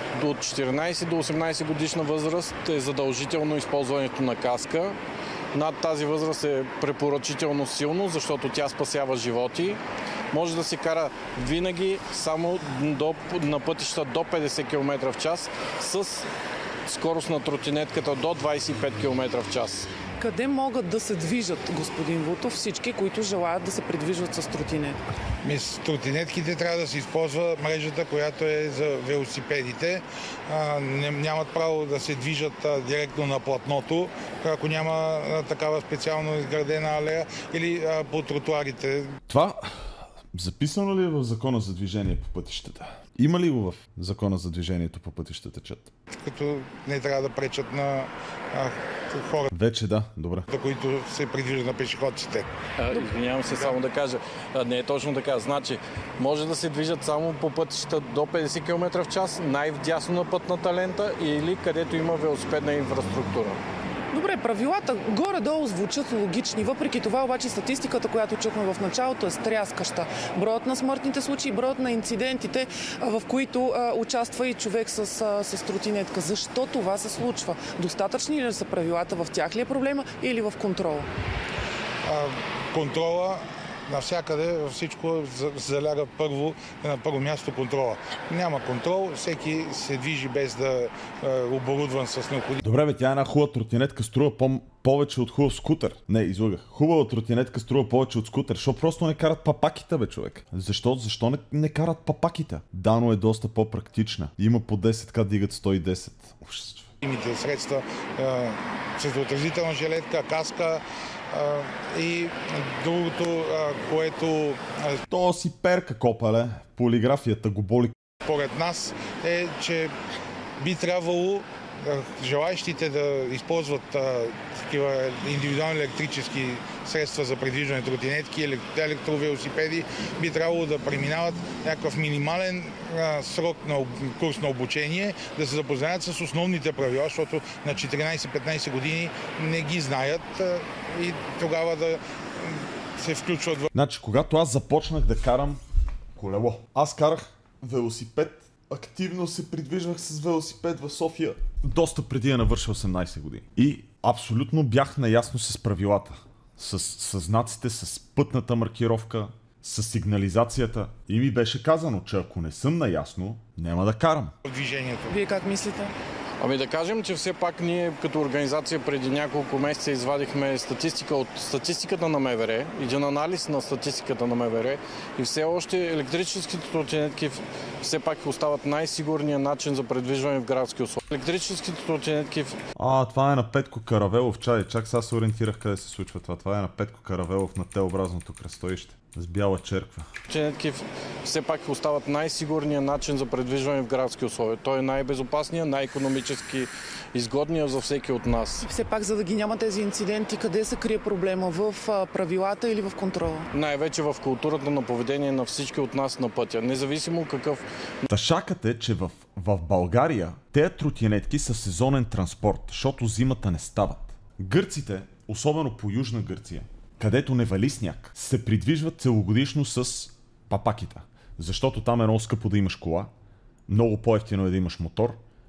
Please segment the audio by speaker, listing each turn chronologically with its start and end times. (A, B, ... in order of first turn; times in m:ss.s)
0:00.2-0:05.0 A
0:05.5-0:09.8 A
0:10.3-0:16.3 A
0:16.9-0:19.9 A
0:20.2-0:25.0 B
0:25.4-0:39.1 C
0:39.3-0:45.9 D
0:46.2-0:49.5 C
0:49.5-0:50.5 D
0:50.5-0:52.5 C
0:52.8-1:03.6 A
1:04.1-1:21.1 B
1:22.0-1:32.6 C
1:32.6-1:46.9 D
1:47.0-1:55.0 C
1:55.1-1:57.9 D
1:58.2-1:59.9 C
2:00.6-2:23.7 C
2:23.7-2:25.6 D
2:26.2-2:44.3 D
2:44.4-2:45.2 C
2:45.1-2:46.0 B
2:46.4-3:02.6 A
3:02.8-3:10.1 D
3:10.3-3:18.7 A
3:18.6-3:23.5 B
3:23.5-3:27.6 A
3:28.1-3:43.1 D
3:43.7-3:45.2 D